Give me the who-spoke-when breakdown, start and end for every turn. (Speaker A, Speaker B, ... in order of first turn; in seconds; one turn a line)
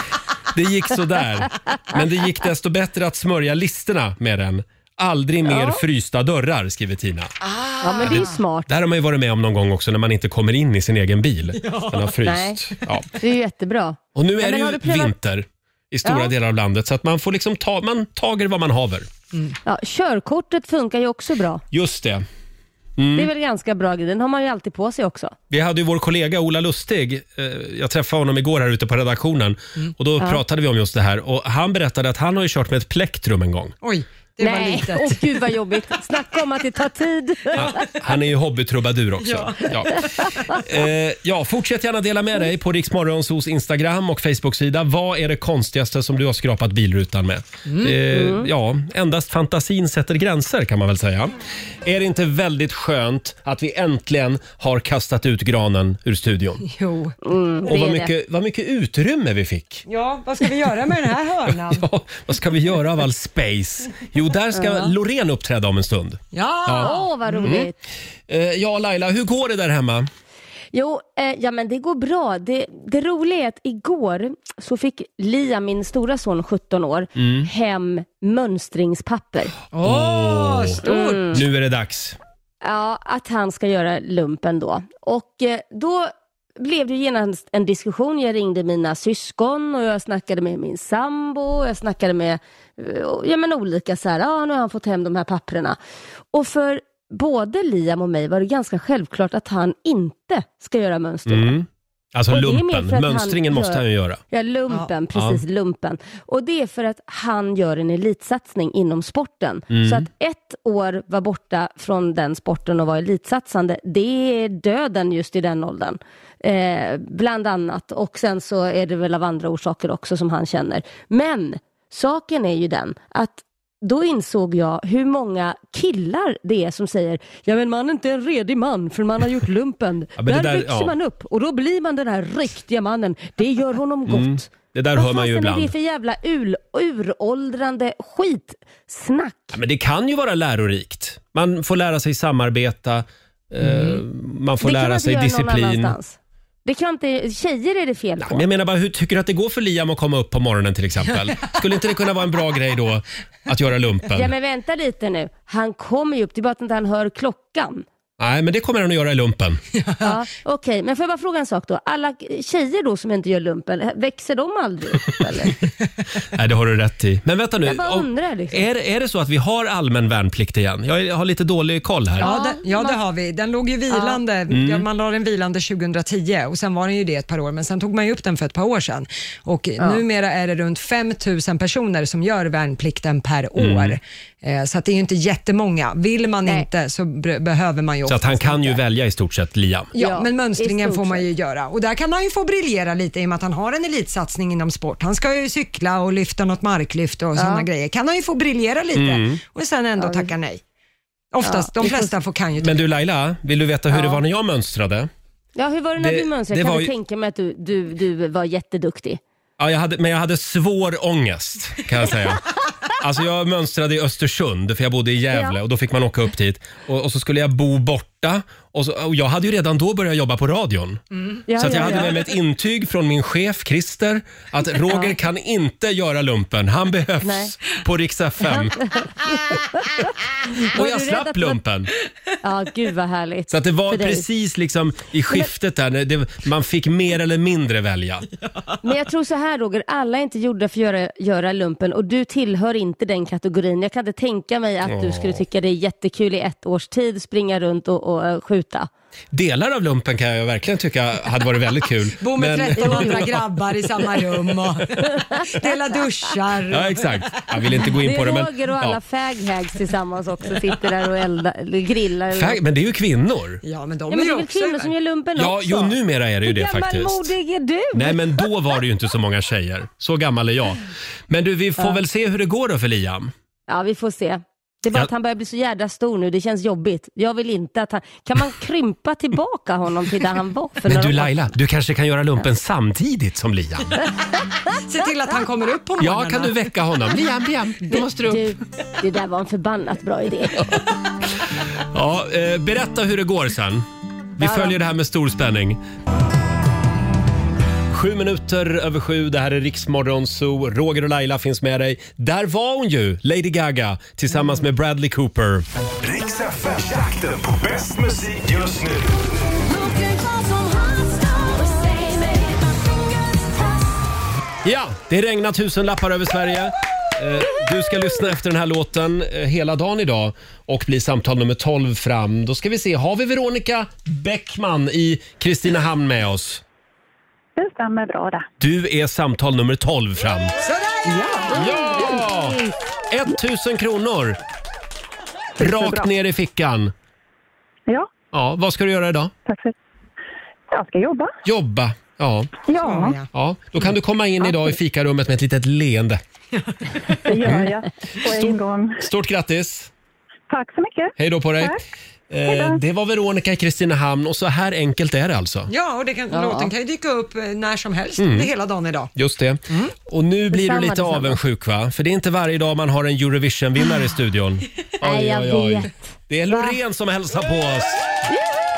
Speaker A: 0.5-7.3
Speaker B: 5.5-5.8
Speaker C: 7.4-8.3
Speaker B: 7.8-8.7
Speaker A: 8.0-13.1
Speaker C: 11.5-12.1
Speaker B: 12.2-12.6
Speaker B: 13.2-15.1
Speaker A: 14.2-19.1
Speaker B: 16.0-16.3
Speaker B: 19.6-21.6
Speaker A: 21.7-22.2
Speaker A: 23.0-23.3
Speaker B: 23.1-25.3
Speaker A: 25.5-33.7
Speaker C: 33.8-35.4
Speaker B: 34.4-37.8
Speaker A: 37.5-56.6
Speaker C: 39.2-40.6
Speaker C: 47.6-48.0
Speaker B: 48.1-48.5
Speaker C: 56.6-57.1
Speaker B: 57.2-58.1
Speaker A: 57.6-59.8
Speaker C: 59.9-61.9
Speaker A: 61.5-67.7
Speaker B: 64.5-64.9
Speaker C: 66.3-67.5
Speaker B: 66.8-67.8
Speaker A: 68.3-70.1
Speaker B: 70.7-79.5
Speaker A: 77.2-77.5
Speaker C: 79.7-81.4
Speaker A: 79.8-82.2
Speaker B: 80.8-81.4
Speaker B: 82.6-95.8
Speaker B: 96.3-101.5
Speaker A: 101.3-104.2
Speaker B: 102.3-139.6
Speaker A: 105.1-105.4
Speaker A: 109.7-110.1
Speaker A: 130.2-130.9
Speaker A: 134.1-135.7
Speaker A: 139.5-145.9
Speaker C: 143.6-144.0
Speaker B: 144.6-148.4
Speaker A: 148.2-154.3
Speaker B: 154.1-157.8
Speaker A: 158.2-159.6
Speaker C: 159.7-160.1
Speaker B: 160.0-165.6
Speaker A: 166.3-172.3
Speaker B: 167.6-168.7
Speaker B: 172.2-173.0
Speaker C: 172.2-188.8
Speaker B: 173.9-174.2
Speaker A: 174.5-174.9
Speaker A: 183.6-184.0
Speaker A: 188.1-189.9
Speaker C: 189.9-200.6
Speaker B: 190.0-191.3
Speaker B: 197.3-197.7
Speaker A: 198.9-199.4
Speaker B: 200.0-200.3
Speaker C: 201.3-202.8
Speaker B: 201.4-202.1
Speaker A: 202.6-205.1
Speaker B: 203.9-204.2
Speaker B: 205.6-209.2
Speaker A: 206.0-206.9
Speaker A: 209.6-221.0
Speaker B: 215.3-215.6
Speaker B: 221.5-222.1
Speaker A: 221.6-228.8
Speaker B: 224.9-225.2
Speaker B: 227.2-227.5
Speaker B: 228.5-231.6
Speaker A: 230.6-231.9
Speaker B: 232.4-234.2
Speaker A: 233.5-238.3
Speaker B: 238.8-248.9
Speaker A: 244.8-245.4
Speaker A: 249.3-253.4
Speaker C: 252.2-257.6
Speaker B: 252.8-253.2
Speaker B: 255.1-256.0
Speaker A: 256.7-259.0
Speaker B: 258.0-262.6
Speaker A: 262.3-263.6
Speaker C: 263.6-264.9
Speaker B: 264.1-268.5
Speaker A: 265.4-267.3
Speaker A: 267.9-273.3
Speaker B: 273.7-281.5
Speaker A: 280.8-284.0
Speaker C: 284.7-286.7
Speaker A: 286.0-288.4
Speaker B: 287.9-290.8
Speaker A: 291.9-293.9
Speaker A: 294.4-295.8
Speaker B: 294.4-294.7
Speaker A: 297.9-305.7
Speaker D: 306.0-309.1
Speaker B: 309.8-312.5
Speaker A: 314.6-326.6
Speaker E: 327.6-328.4
Speaker A: 328.6-330.5
Speaker C: 330.6-331.2
Speaker E: 331.1-331.5
Speaker B: 331.5-332.7
Speaker A: 331.5-334.4
Speaker A: 335.6-336.9
Speaker E: 335.6-336.1
Speaker A: 338.3-339.3
Speaker E: 339.4-339.7
Speaker E: 340.7-341.3
Speaker A: 341.4-342.5
Speaker E: 342.7-343.2
Speaker C: 342.8-343.2
Speaker A: 343.3-346.2
Speaker C: 346.5-347.2
Speaker E: 347.3-349.0
Speaker A: 347.4-347.7
Speaker A: 349.0-349.9
Speaker E: 350.5-351.7
Speaker A: 351.1-351.8
Speaker A: 352.3-355.7
Speaker E: 352.4-352.8
Speaker C: 355.7-359.1
Speaker B: 356.3-356.7
Speaker A: 358.2-358.5
Speaker A: 359.1-368.2
Speaker B: 360.5-361.4
Speaker B: 365.0-365.9
Speaker B: 366.5-366.7